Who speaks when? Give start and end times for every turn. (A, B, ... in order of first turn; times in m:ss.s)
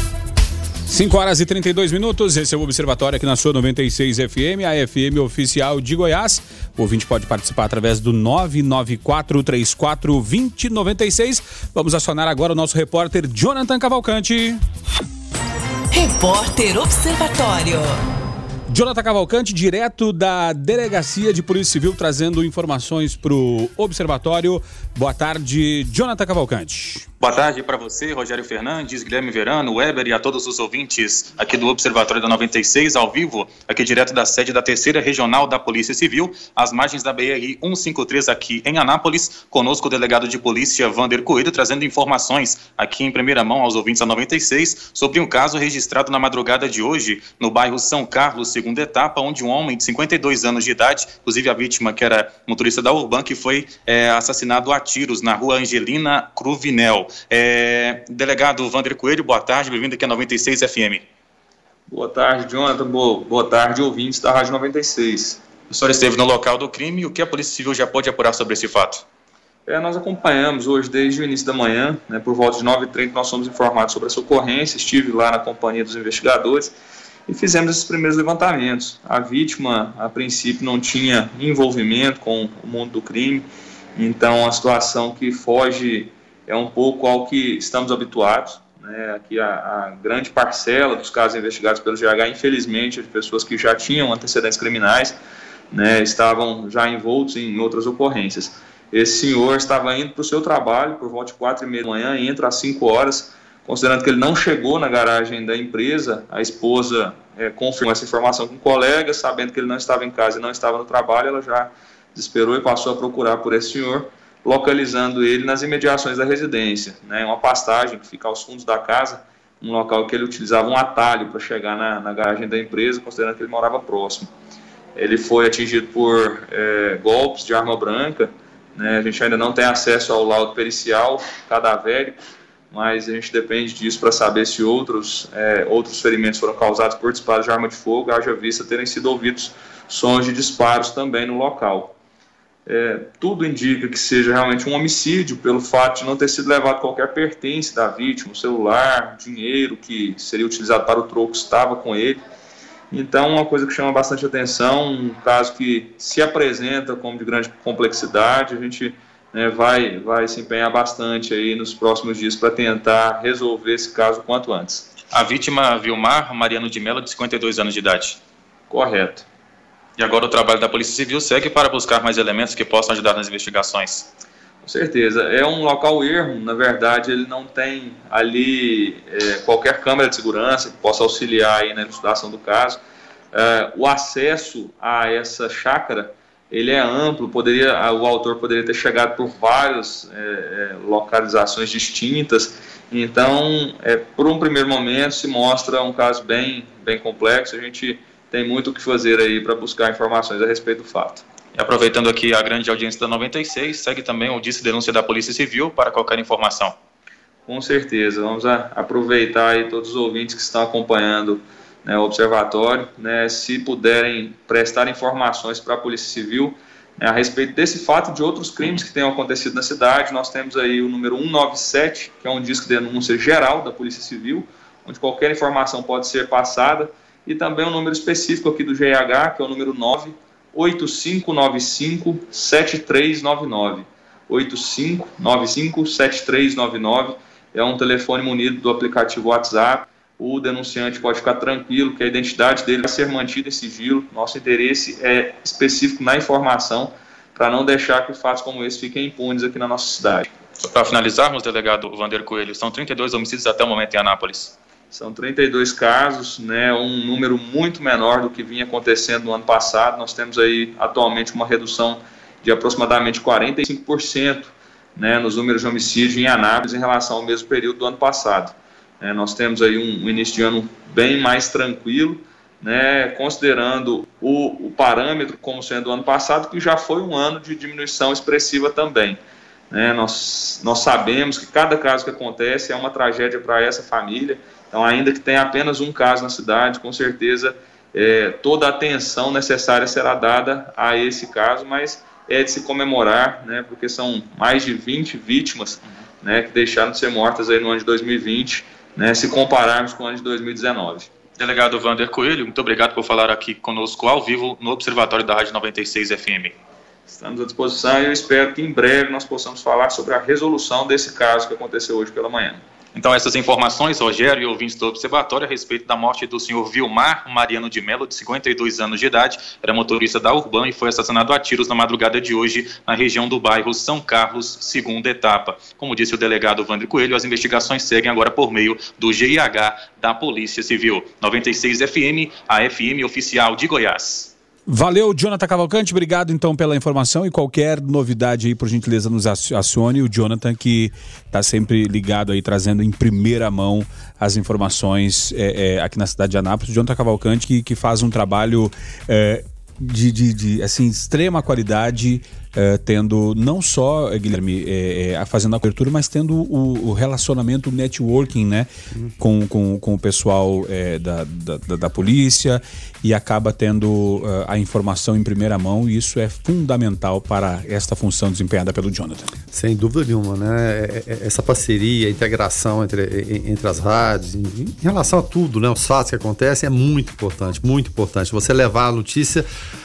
0:00.9-0:14.6 A
0:15.9-0:18.0 B
0:18.7-0:27.1 A
0:27.2-1:01.0 C
1:01.9-1:05.4 D
1:05.7-1:09.0 C
1:09.7-1:16.8 D
1:17.3-1:23.5 D
1:24.0-1:35.2 D
1:35.7-2:04.3 D
2:05.0-2:12.2 D
2:12.7-2:22.0 D
2:22.7-2:32.2 D
2:32.9-2:44.9 D
2:45.1-2:48.2 C
2:48.7-2:49.2 D
2:50.0-2:54.1 C
2:54.6-3:02.8 D
3:03.3-3:21.2 D
3:21.6-3:26.8 C
3:27.5-4:10.3 D
4:10.6-4:14.5 C
4:14.9-4:39.2 D
4:39.7-5:01.1 D
5:01.4-5:06.6 C
5:07.1-5:12.6 D
5:12.9-5:34.3 C
5:34.7-6:09.3 A
6:09.5-6:19.5 E